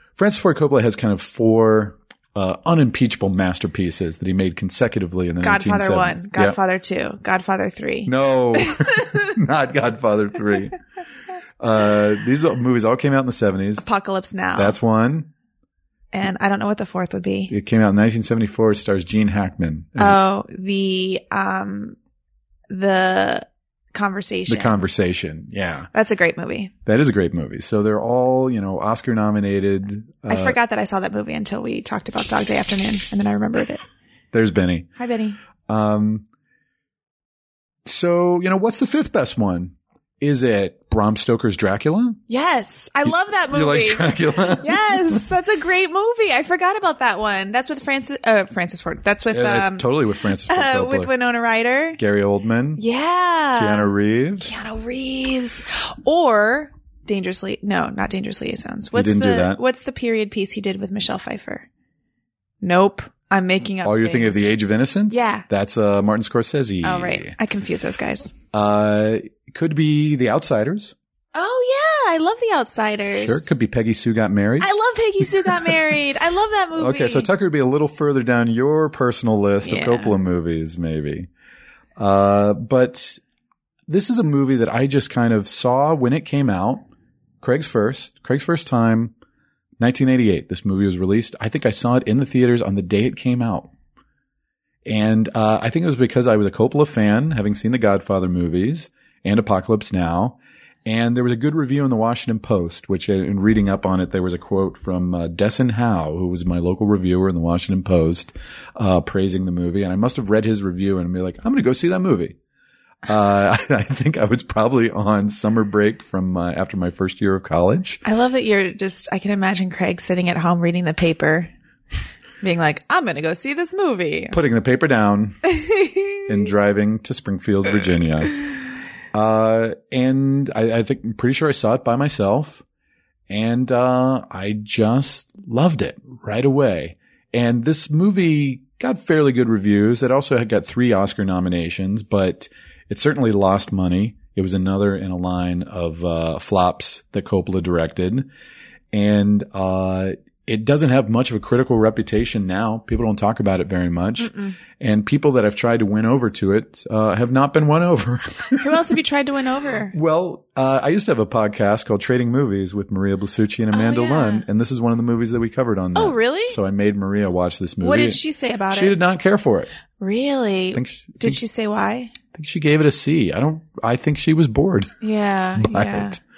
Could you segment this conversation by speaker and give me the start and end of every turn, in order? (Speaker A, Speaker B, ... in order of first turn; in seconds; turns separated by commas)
Speaker A: 0.2-6.6, Speaker B: 5.4-9.3, Speaker A: 8.1-10.8, Speaker A: 11.6-13.9, Speaker B: 13.8-14.8, Speaker A: 14.6-15.3, Speaker B: 16.1-17.5, Speaker A: 17.5-20.2, Speaker B: 20.0-22.0, Speaker B: 22.7-24.8, Speaker A: 24.5-25.9, Speaker B: 25.9-26.7, Speaker A: 26.9-30.6, Speaker B: 30.3-33.8, Speaker A: 34.3-34.9, Speaker B: 35.0-35.4, Speaker A: 35.7-36.2, Speaker A: 37.9-42.2, Speaker B: 42.3-52.0, Speaker A: 43.0-45.2, Speaker A: 49.3-51.1, Speaker A: 52.0-52.8, Speaker B: 52.8-61.7, Speaker A: 53.5-54.5, Speaker A: 58.9-59.6, Speaker B: 62.6-64.5, Speaker A: 63.8-67.3, Speaker B: 65.1-65.5, Speaker B: 66.8-68.3, Speaker A: 68.5-70.9, Speaker B: 71.3-73.5, Speaker A: 73.1-74.7, Speaker B: 74.6-77.3, Speaker A: 76.8-81.3, Speaker B: 79.6-80.2, Speaker A: 82.0-83.2, Speaker A: 83.9-86.8, Speaker A: 87.4-89.1, Speaker A: 89.8-93.7, Speaker A: 94.9-112.4, Speaker A: 113.0-118.0, Speaker B: 118.0-121.5, Speaker B: 122.4-124.4, Speaker A: 124.3-125.4, Speaker B: 125.6-126.3, Speaker A: 126.3-128.5, Speaker A: 129.1-132.6, Speaker A: 133.3-148.3, Speaker A: 148.9-158.7, Speaker B: 154.2-154.6, Speaker B: 158.6-159.9, Speaker A: 159.9-169.7, Speaker B: 163.7-164.4, Speaker B: 165.9-166.6, Speaker B: 167.8-169.0, Speaker B: 170.0-172.2, Speaker A: 170.7-171.4, Speaker A: 172.3-174.9, Speaker B: 175.0-176.2, Speaker A: 175.6-176.2